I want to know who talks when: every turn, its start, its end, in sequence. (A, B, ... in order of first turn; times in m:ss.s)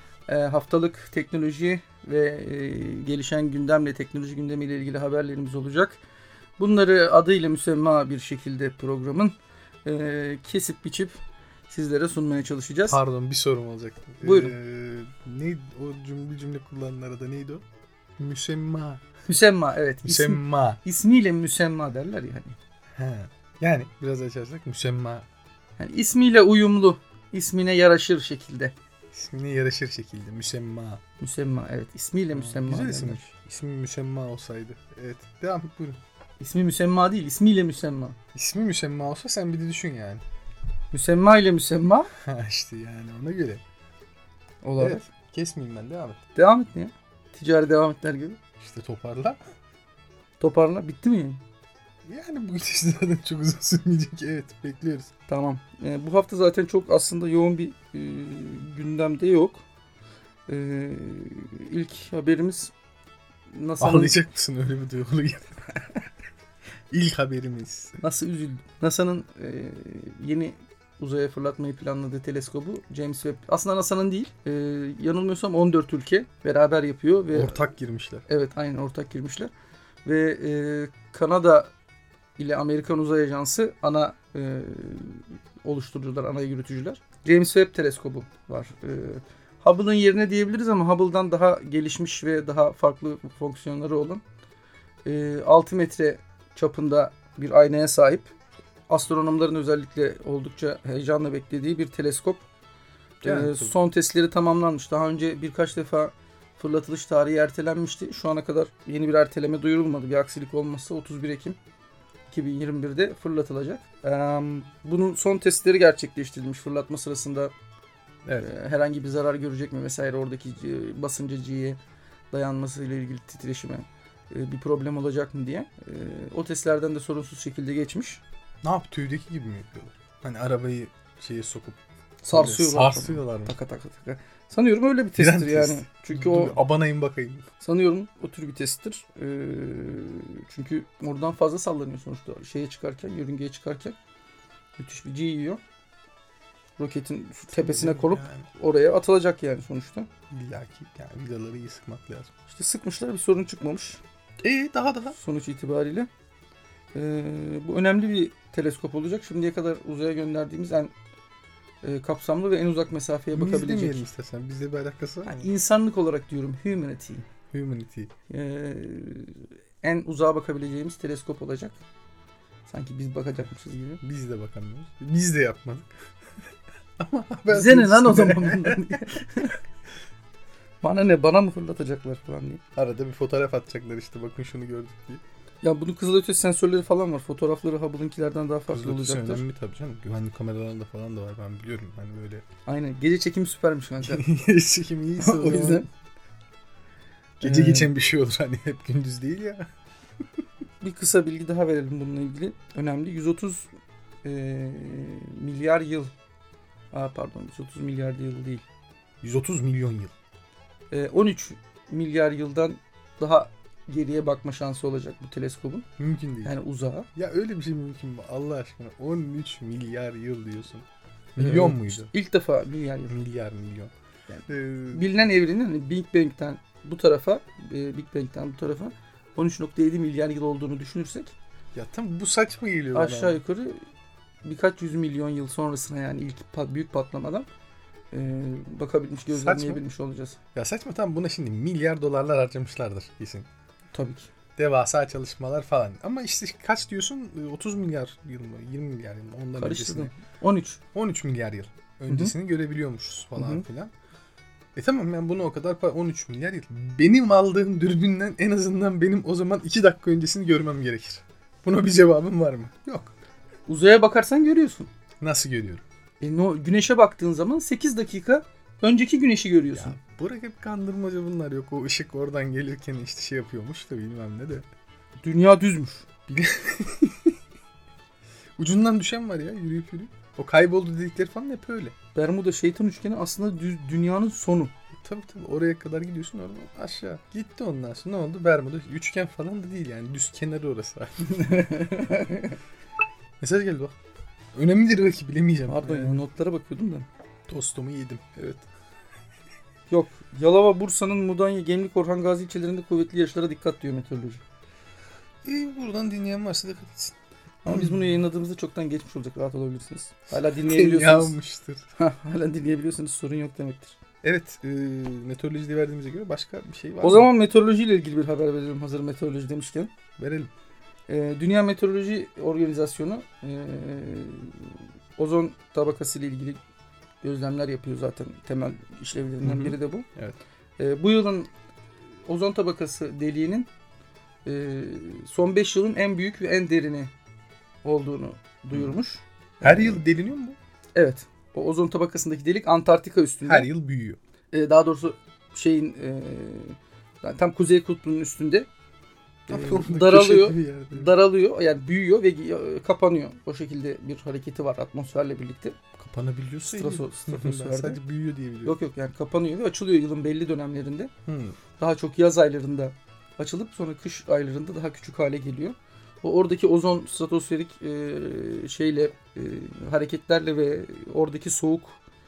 0:00.3-0:06.0 A
0:06.6-0:11.2 A
0:11.7-0:13.0 A
0:12.9-0:17.6 B
0:14.2-0:14.6 A
0:18.2-0:19.0 B
0:19.3-0:22.6 A
0:20.0-0:20.8 B
0:22.9-0:25.2 B
0:25.8-0:28.7 A
0:29.1-0:31.0 B
0:31.2-0:33.2 A
0:32.3-0:36.0 B
0:36.4-0:38.2 A
0:38.3-0:40.2 B
0:40.9-0:42.1 A
0:42.2-0:43.6 B
0:44.6-0:45.0 A
0:44.8-0:46.2 B
0:46.4-0:48.4 A
0:48.6-0:49.4 B
0:50.4-0:51.4 A
0:52.0-0:55.1 B
0:55.3-0:59.6 A
1:00.5-1:02.7 A
1:03.5-1:04.2 A
1:03.8-1:05.4 B
1:06.9-1:08.0 B
1:08.0-1:17.6 A
1:17.3-1:18.2 B
1:18.3-1:19.5 A
1:20.0-1:21.7 A
1:22.4-1:34.2 A
1:35.0-1:38.3 A
1:38.9-1:42.4 A
1:43.2-1:43.7 B
1:43.2-1:51.6 A
1:52.3-1:57.5 A
1:58.2-1:58.5 B
1:58.4-2:01.8 A
2:02.3-2:08.2 A
2:08.6-2:13.5 B
2:12.2-2:16.6 A
2:15.2-2:17.4 B
2:17.6-2:24.0 A
2:24.8-2:25.6 A
2:26.8-2:30.1 A
2:27.5-2:28.5 B
2:30.3-2:32.3 B
2:32.5-2:34.0 A
2:34.4-2:35.2 B
2:35.1-2:36.1 A
2:36.9-2:40.9 A
2:41.8-2:44.0 A
2:43.3-2:45.5 B
2:45.2-2:47.2 A
2:47.5-2:48.1 B
2:48.3-2:51.8 A
2:52.7-2:54.0 A
2:54.0-2:55.9 B
2:57.0-2:59.2 B
2:57.5-2:59.6 A
3:00.8-3:02.6 A
3:02.8-3:05.2 B
3:05.6-3:09.4 A
3:08.7-3:12.4 B
3:12.6-3:14.2 A
3:14.0-3:15.8 B
3:15.2-3:15.9 A
3:17.4-3:19.7 B
3:17.4-3:17.9 A
3:20.8-3:23.7 A
3:24.2-3:26.1 A
3:26.9-3:28.6 A
3:29.2-3:30.1 B
3:30.9-3:35.9 A
3:36.0-3:36.5 B
3:36.4-3:37.1 A
3:37.1-3:40.8 B
3:41.4-3:42.1 B
3:41.4-3:43.1 A
3:43.1-3:43.9 B
3:44.3-3:51.3 A
3:44.5-3:45.1 B
3:51.7-3:53.4 B
3:52.9-3:53.8 A
3:54.4-3:57.5 A
3:58.1-4:00.4 A
3:59.3-3:59.8 B
4:00.5-4:03.5 B
4:03.9-4:04.3 A
4:04.6-4:10.1 B
4:09.6-4:10.8 A
4:10.9-4:13.9 B
4:12.1-4:12.3 A
4:13.4-4:13.6 A
4:14.7-4:23.1 B
4:23.7-4:24.9 A
4:25.2-4:25.8 B
4:26.2-4:30.0 A
4:29.7-4:34.6 B
4:35.2-4:36.1 A
4:36.3-4:37.3 B
4:38.6-4:42.0 B
4:42.1-4:44.7 A
4:45.0-4:51.5 B
4:51.2-4:52.6 A
4:53.4-4:54.0 B
4:54.5-4:56.2 B
4:55.7-4:57.0 A
4:57.5-4:58.6 B
4:59.9-5:04.4 A
5:05.4-5:08.1 B
5:07.6-5:11.4 A
5:10.5-5:11.8 B
5:12.0-5:14.0 A
5:14.2-5:17.3 B
5:17.0-5:19.9 A
5:20.2-5:20.5 B
5:21.1-5:26.6 A
5:27.2-5:30.1 A
5:29.4-5:30.4 B
5:30.8-5:31.5 A
5:32.2-5:33.7 A
5:34.4-5:37.1 A
5:37.8-5:40.0 A
5:39.6-5:40.6 B
5:40.9-5:43.7 A
5:43.4-5:44.2 B
5:44.5-5:48.7 A
5:49.5-5:55.8 A
5:49.5-5:51.1 B
5:56.0-5:58.8 B
5:56.6-5:58.0 A
5:58.6-6:01.1 A
6:01.2-6:01.6 B
6:01.8-6:12.0 A